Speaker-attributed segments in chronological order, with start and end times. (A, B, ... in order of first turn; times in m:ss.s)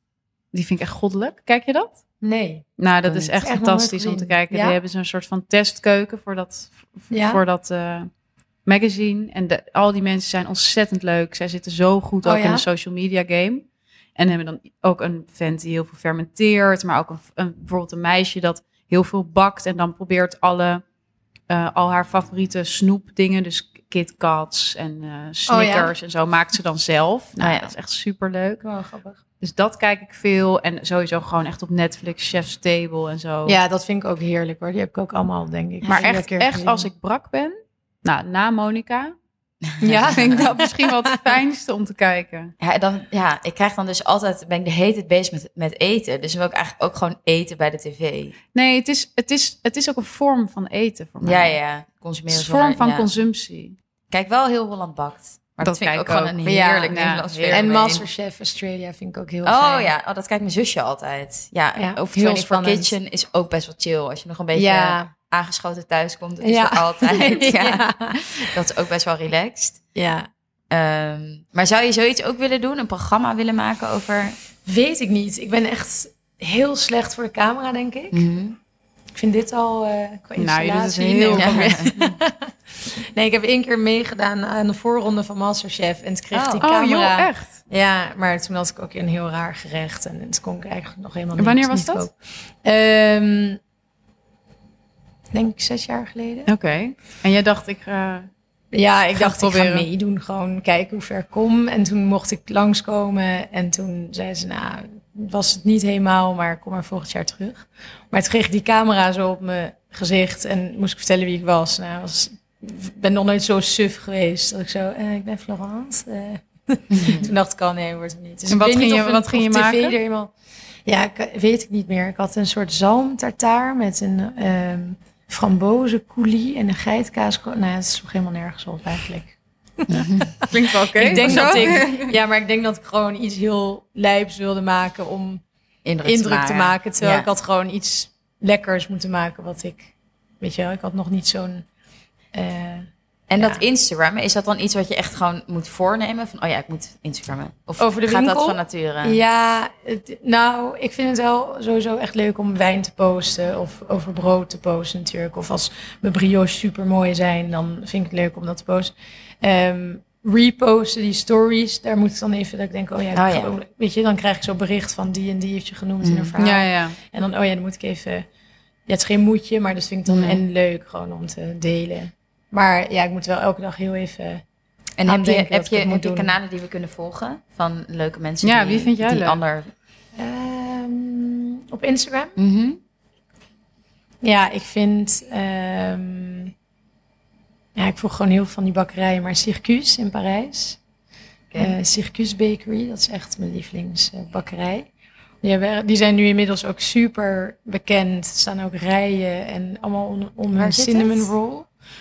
0:00.5-0:02.0 A
0:02.2-0:02.6 B
0:02.8-0:08.1 A
0:03.3-0:04.8 B
0:07.1-0:07.4 B
0:08.6-0:13.6 A
0:12.2-0:12.6 B
0:14.2-0:20.8 A
0:21.5-0:28.6 A
0:25.5-0:25.9 B
0:27.4-0:27.7 C
0:28.6-0:29.2 B
0:29.4-0:33.6 A
0:33.4-0:36.9 B
0:35.9-0:39.1 A
0:39.7-0:40.4 C
0:39.8-0:41.4 B
0:40.0-0:42.5 A
0:42.6-0:48.4 C
0:48.5-0:51.5 A
0:51.2-0:53.1 C
0:52.3-0:53.8 A
0:54.1-0:58.0 C
0:55.6-0:57.7 A
0:56.4-0:59.9 B
0:59.4-1:09.8 C
1:01.8-1:02.9 B
1:04.5-1:05.1 B
1:06.4-1:08.6 B
1:09.9-1:10.3 B
1:10.7-1:14.4 C
1:14.6-1:18.2 B
1:18.1-1:18.6 C
1:19.1-1:33.6 B
1:20.4-1:22.1 A
1:21.3-1:21.9 C
1:26.3-1:26.6 C
1:26.6-1:27.6 A
1:31.4-1:32.1 A
1:35.3-1:36.5 B
1:36.5-1:38.3 A
1:38.7-2:00.3 B
1:39.1-1:39.9 A
1:56.9-1:57.3 C
1:58.5-2:00.0 A
2:00.8-2:15.4 B
2:09.9-2:10.3 C
2:10.4-2:12.1 A
2:11.1-2:11.8 C
2:15.8-2:17.3 C
2:16.0-2:21.6 B
2:22.3-2:23.6 B
2:23.3-2:29.2 C
2:27.8-2:48.3 B
2:43.1-2:43.5 C
2:46.0-2:46.4 C
2:46.4-2:47.0 A
2:48.9-2:54.4 B
2:50.1-2:50.4 A
2:55.0-2:59.7 C
2:55.0-2:56.3 B
2:58.4-2:59.4 A
3:00.2-3:02.4 B
3:02.4-3:02.8 C
3:04.2-3:06.5 B
3:07.8-3:10.8 B
3:11.5-3:11.8 C
3:11.6-3:14.9 B
3:15.4-3:21.7 B
3:20.5-3:21.3 C